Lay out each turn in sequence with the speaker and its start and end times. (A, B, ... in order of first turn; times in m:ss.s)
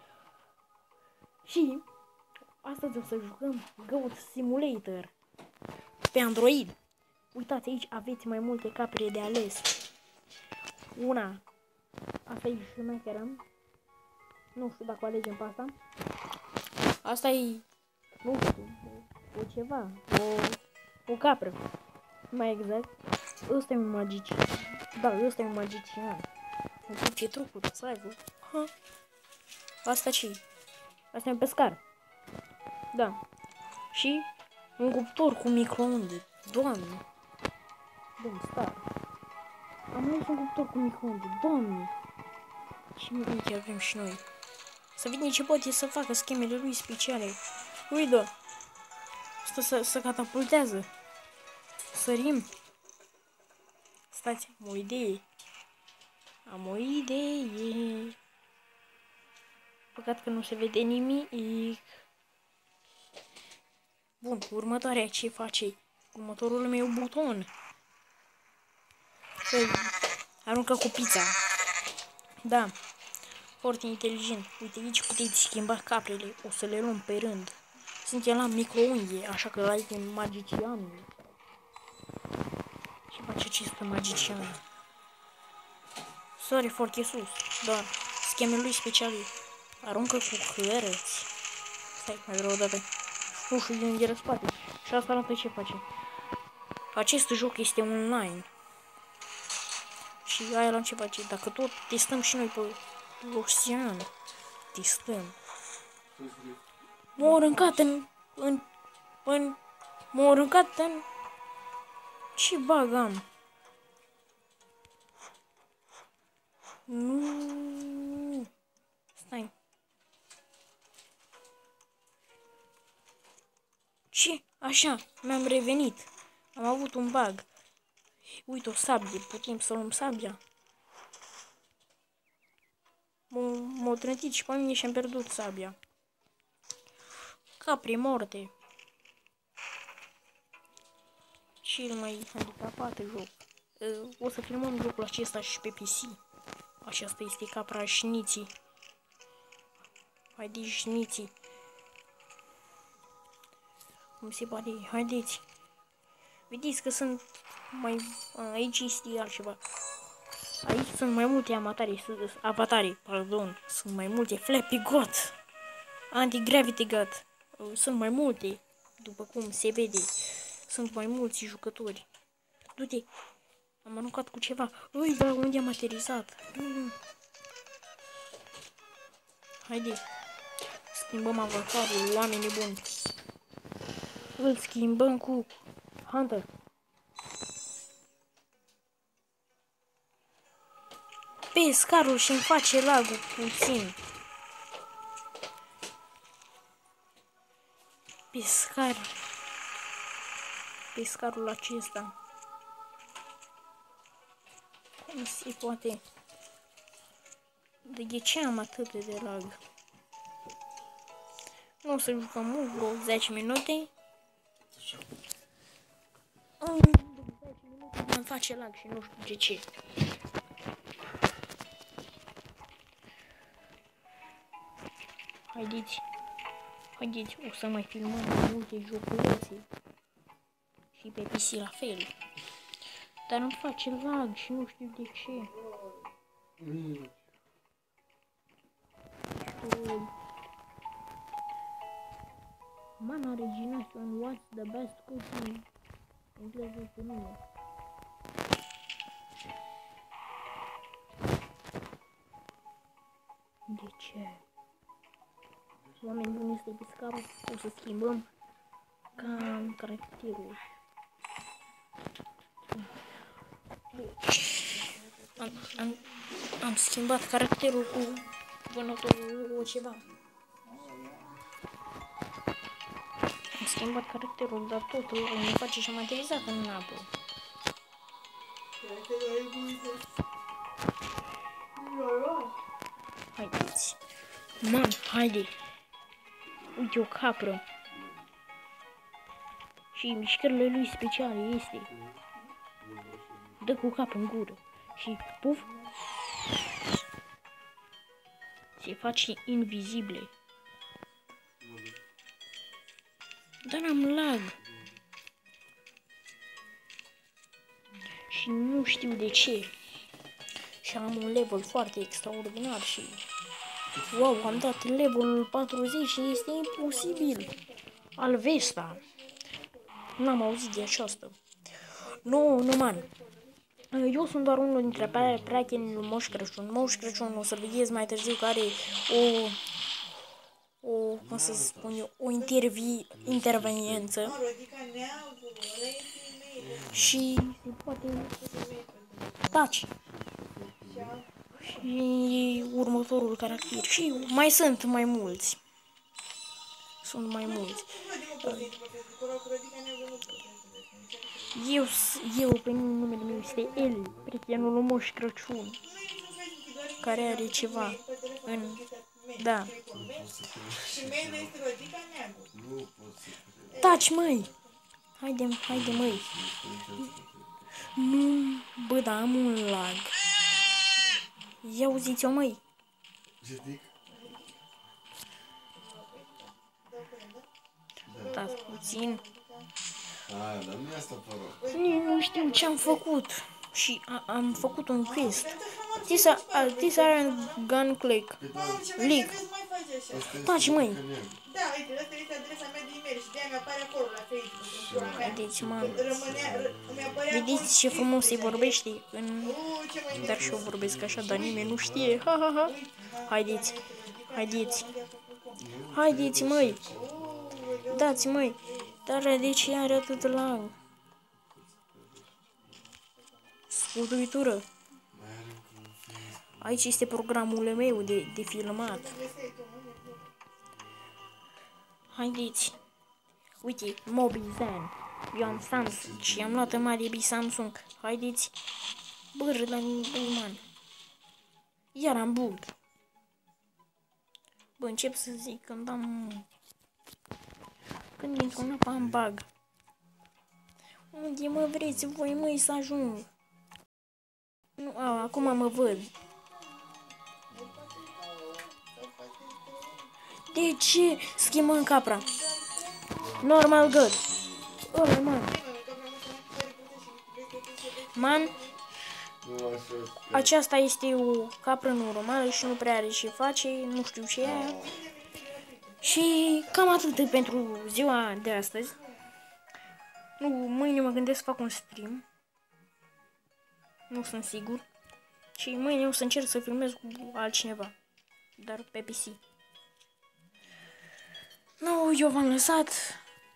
0:01.4-0:01.8 A
0:02.6-0:05.1 A
0:06.1-0:06.8 A
0:07.3-0:09.7 A
0:10.9-0:11.4 A
0:12.3-0:13.4 A
0:14.5-0:15.8 A
0:17.0-0:17.6 A
0:18.2-0:21.6 A
0:22.3-0:22.9 A
0:23.5-0:26.3 A
0:26.9-0:28.7 A
0:29.8-0:30.4 A
0:31.1-0:31.8 A
0:32.9-0:33.2 A
0:33.9-0:37.0 A
0:38.2-0:38.9 A
0:39.9-0:41.9 A
0:43.0-0:44.2 A
0:45.0-0:48.3 A
0:49.4-0:50.9 A
0:51.9-0:52.5 A
0:54.1-0:55.2 A
0:56.5-0:58.2 A
0:59.9-1:02.0 A
1:04.2-1:07.5 A
1:09.5-1:11.4 A
1:12.4-1:12.8 A
1:13.6-1:21.4 A
1:23.1-1:24.6 A
1:26.4-1:31.3 A
1:32.0-1:35.8 A
1:36.9-1:38.5 A
1:40.2-1:44.1 A
1:44.7-1:45.4 A
1:46.2-1:46.6 B
1:47.2-1:48.6 A
1:49.2-1:49.6 A
1:50.1-1:51.0 A
1:52.4-1:53.3 A
1:56.9-1:58.5 A
1:59.2-1:59.5 A
2:04.1-2:07.5 A
2:08.3-2:10.4 A
2:13.3-2:15.8 A
2:17.6-2:18.5 A
2:21.6-2:26.2 A
2:26.8-2:28.5 A
2:30.3-2:31.3 A
2:34.2-2:35.4 A
2:36.5-2:39.6 A
2:40.6-2:45.4 A
2:46.1-2:52.1 A
2:52.8-2:53.1 A
2:53.8-2:57.0 A
2:59.6-3:00.0 A
3:00.9-3:02.8 A
3:04.4-3:05.5 A
3:06.0-3:06.5 A
3:11.5-3:14.0 A
3:18.3-3:19.2 A
3:20.9-3:22.1 A
3:25.0-3:26.0 A
3:27.8-3:29.6 A
3:31.8-3:33.9 A
3:36.6-3:39.7 A
3:45.5-3:46.0 A
3:47.0-3:49.7 A
3:50.9-3:52.1 A
3:53.3-3:55.5 A
3:56.8-3:57.0 B
3:59.4-4:00.1 A
4:03.0-4:05.7 A
4:06.4-4:07.4 A
4:13.7-4:14.4 A
4:16.0-4:18.3 A
4:19.2-4:20.6 A
4:23.9-4:24.7 A
4:25.4-4:26.0 A
4:26.6-4:30.0 A
4:30.7-4:31.4 C
4:33.6-4:37.1 A
4:38.8-4:40.0 C
4:41.8-4:42.5 C
4:43.3-4:44.0 A
4:44.6-4:45.5 A
4:46.7-4:47.6 A
4:49.9-4:51.9 A
4:52.9-4:53.4 B
4:53.6-4:55.7 A
4:58.8-5:00.3 A
5:01.6-5:01.9 B
5:03.6-5:04.6 A
5:08.3-5:09.7 A
5:10.8-5:13.3 A
5:13.9-5:14.6 B
5:14.0-5:17.6 A
5:16.5-5:17.6 C
5:18.2-5:19.0 A
5:18.9-5:19.6 C
5:20.2-5:21.4 A
5:21.9-5:23.1 A
5:22.3-5:23.5 C
5:23.9-5:29.6 A
5:24.9-5:26.5 B
5:30.8-5:34.4 A
5:31.2-5:32.0 B
5:33.1-5:34.1 B
5:34.2-5:37.0 C
5:36.6-5:37.2 B
5:36.9-5:38.3 A
5:38.2-5:39.5 C
5:39.5-5:39.9 A
5:40.0-5:41.2 B
5:40.9-5:41.2 C
5:41.6-5:45.6 A
5:47.0-5:48.7 A
5:47.5-5:51.9 C
5:51.5-5:55.8 A
5:53.3-5:53.9 C
5:54.1-5:54.8 B
5:55.8-6:02.5 C
5:57.0-5:58.8 A
5:59.4-5:59.8 A
5:59.9-6:01.6 B
6:02.5-6:03.9 B
6:03.7-6:04.6 C
6:03.8-6:04.5 A
6:05.2-6:06.3 A
6:05.7-6:07.7 B
6:07.8-6:10.1 A
6:11.6-6:12.6 A
6:13.4-6:13.9 B
6:15.8-6:17.5 C
6:18.1-6:19.2 A
6:18.1-6:19.7 C
6:20.3-6:21.6 B
6:21.6-6:23.0 C
6:21.7-6:28.4 A
6:25.0-6:27.6 C
6:28.4-6:28.9 B
6:28.5-6:30.4 C
6:29.0-6:29.4 A
6:30.1-6:31.4 B
6:30.3-6:31.0 A
6:31.5-6:38.7 C
6:34.7-6:37.3 B
6:35.1-6:36.2 A
6:37.3-6:39.6 A
6:39.4-6:40.7 C
6:40.1-6:42.3 B
6:40.1-6:43.8 A
6:41.2-6:41.6 C
6:42.6-6:45.6 C
6:44.3-6:44.9 A
6:45.6-6:47.9 B
6:45.9-6:46.8 A
6:46.8-6:49.0 C
6:47.9-6:50.8 A
6:49.6-6:50.7 B
6:51.5-6:52.5 B
6:53.7-6:54.6 A
6:55.1-6:57.2 B
6:56.6-6:59.2 A
6:58.8-7:00.3 C
7:02.1-7:02.8 A
7:03.6-7:08.5 A
7:05.4-7:06.9 B
7:09.3-7:10.6 A
7:11.9-7:12.7 A
7:14.8-7:16.5 A
7:18.2-7:19.5 A
7:21.1-7:23.3 A
7:24.8-7:26.1 A
7:25.3-7:25.6 C
7:26.2-7:27.0 C
7:27.5-7:30.1 C
7:30.5-7:32.4 A
7:31.7-7:33.5 C
7:33.2-7:34.9 B
7:33.4-7:34.2 A
7:34.9-7:35.6 A
7:35.5-7:38.8 C
7:38.1-7:38.6 A
7:39.4-7:40.5 B
7:40.3-7:44.9 A
7:44.4-7:45.0 B
7:44.6-7:46.2 C
7:46.0-7:49.0 A
7:50.4-7:52.2 A
7:54.1-7:54.8 A
7:55.6-7:57.9 A
7:58.6-7:59.4 A
8:01.8-8:03.2 A